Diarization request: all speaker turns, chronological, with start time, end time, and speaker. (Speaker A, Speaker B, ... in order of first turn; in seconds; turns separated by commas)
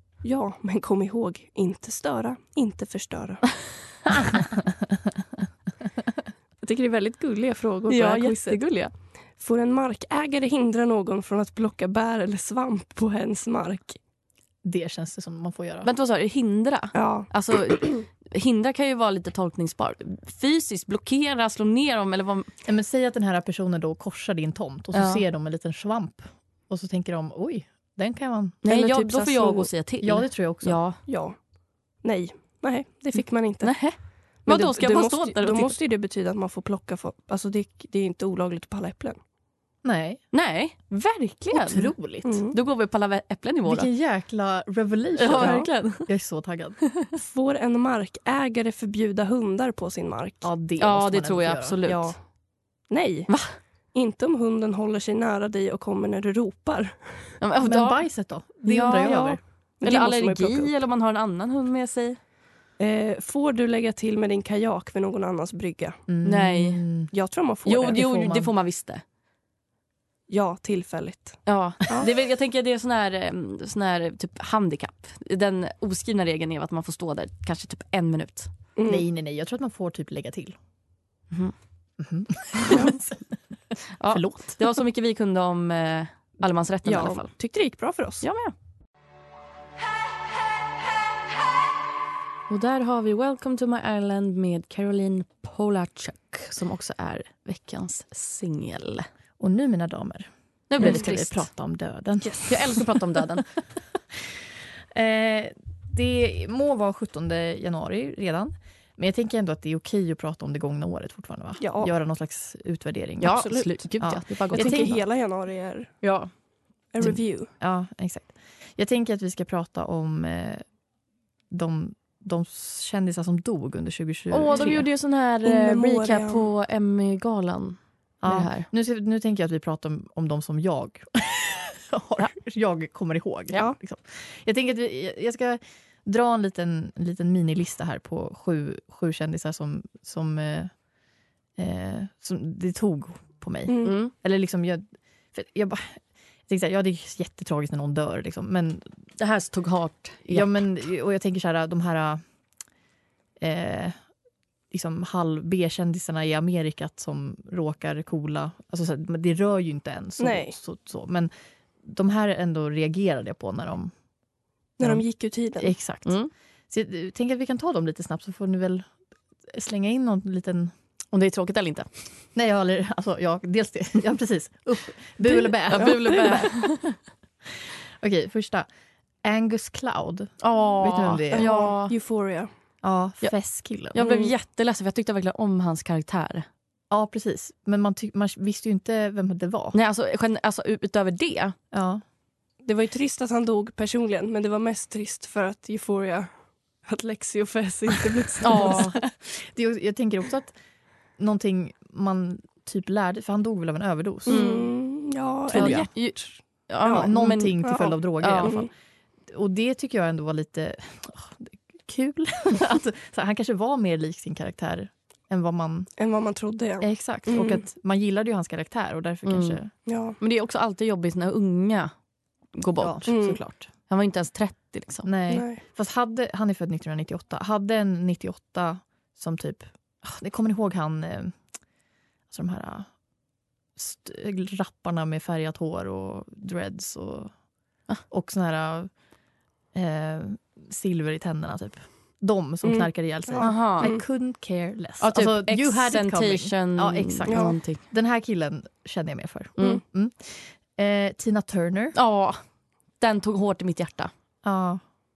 Speaker A: 0.2-3.5, Speaker B: 4.3-4.7, Speaker A: 6.6-8.6, Speaker C: 7.9-8.9, Speaker A: 9.4-14.0, Speaker B: 14.6-15.9, Speaker C: 15.8-22.5, Speaker A: 16.9-17.3, Speaker B: 22.6-29.0, Speaker C: 24.9-25.2, Speaker C: 28.6-31.0, Speaker A: 28.7-29.7, Speaker B: 30.0-30.8, Speaker A: 31.1-31.4, Speaker A: 32.0-33.8, Speaker C: 33.6-35.7, Speaker A: 34.4-39.2, Speaker B: 39.8-40.2, Speaker C: 40.3-41.9, Speaker B: 41.5-42.4, Speaker A: 42.2-42.5, Speaker C: 42.5-43.9, Speaker B: 43.6-46.8, Speaker C: 45.2-46.1, Speaker A: 45.4-45.7, Speaker A: 47.1-50.5, Speaker B: 50.4-51.8, Speaker C: 50.8-52.1, Speaker A: 51.9-52.1, Speaker A: 52.9-53.3, Speaker C: 53.3-53.5, Speaker A: 53.9-57.3, Speaker C: 57.4-58.0, Speaker B: 57.6-59.4, Speaker C: 58.6-62.2, Speaker A: 59.8-60.7, Speaker A: 62.8-66.0, Speaker B: 66.1-67.1, Speaker C: 66.2-66.8, Speaker A: 67.1-68.1, Speaker C: 67.7-69.0, Speaker B: 67.9-68.5, Speaker A: 70.3-72.1, Speaker C: 71.5-78.5, Speaker A: 78.8-79.0, Speaker B: 78.8-80.5, Speaker B: 82.0-83.2, Speaker C: 84.0-87.3, Speaker B: 84.1-84.7, Speaker A: 86.8-88.2, Speaker C: 88.2-88.5, Speaker C: 92.5-99.1, Speaker B: 99.4-103.0, Speaker C: 100.7-101.5, Speaker C: 102.5-103.5, Speaker B: 104.1-104.4, Speaker B: 104.9-115.0, Speaker A: 111.6-111.9, Speaker C: 113.2-114.9, Speaker A: 113.3-113.7, Speaker A: 114.5-115.9, Speaker C: 116.0-116.3, Speaker A: 116.9-117.5, Speaker B: 117.0-120.6, Speaker B: 121.5-124.8, Speaker C: 124.3-128.7, Speaker A: 125.4-126.5, Speaker B: 128.2-140.7, Speaker B: 141.6-148.9, Speaker A: 143.7-144.0, Speaker C: 143.8-144.1, Speaker C: 149.2-150.7, Speaker B: 150.3-152.2, Speaker B: 153.4-153.9, Speaker B: 154.7-161.3, Speaker A: 160.2-160.6, Speaker B: 161.8-163.9, Speaker A: 164.8-165.7, Speaker B: 165.6-166.2, Speaker C: 166.1-166.3, Speaker B: 166.7-168.9, Speaker B: 169.5-170.7, Speaker C: 171.1-171.9, Speaker B: 172.3-176.6, Speaker C: 175.7-177.0, Speaker A: 175.7-176.4, Speaker B: 177.6-178.7, Speaker B: 179.2-181.5, Speaker C: 180.4-181.9, Speaker A: 181.3-182.5, Speaker B: 182.8-184.0, Speaker C: 183.9-186.4, Speaker A: 184.0-184.3, Speaker B: 186.9-189.8, Speaker C: 189.7-191.6, Speaker B: 191.7-192.0, Speaker A: 192.6-196.3, Speaker A: 196.8-198.8, Speaker C: 198.4-199.0, Speaker B: 198.5-200.5, Speaker B: 201.2-204.4, Speaker A: 204.2-206.0, Speaker C: 204.3-204.7, Speaker B: 205.5-205.9, Speaker C: 205.5-207.6, Speaker B: 206.9-208.7, Speaker A: 207.6-208.7, Speaker C: 208.2-208.6, Speaker B: 209.3-215.9, Speaker A: 216.0-217.6, Speaker B: 216.8-219.7, Speaker C: 219.2-219.6, Speaker A: 219.8-220.2, Speaker C: 220.2-221.9, Speaker C: 222.5-223.2, Speaker B: 222.8-223.7, Speaker A: 223.1-223.4, Speaker C: 223.9-225.1, Speaker B: 225.0-231.4, Speaker A: 225.3-225.6, Speaker B: 232.3-232.9, Speaker B: 233.8-237.3, Speaker B: 238.1-238.9, Speaker B: 239.7-251.9, Speaker A: 242.6-244.0, Speaker C: 243.4-243.9, Speaker C: 245.0-247.8, Speaker A: 247.3-247.6, Speaker C: 251.9-252.4, Speaker C: 253.0-254.1, Speaker B: 254.4-254.8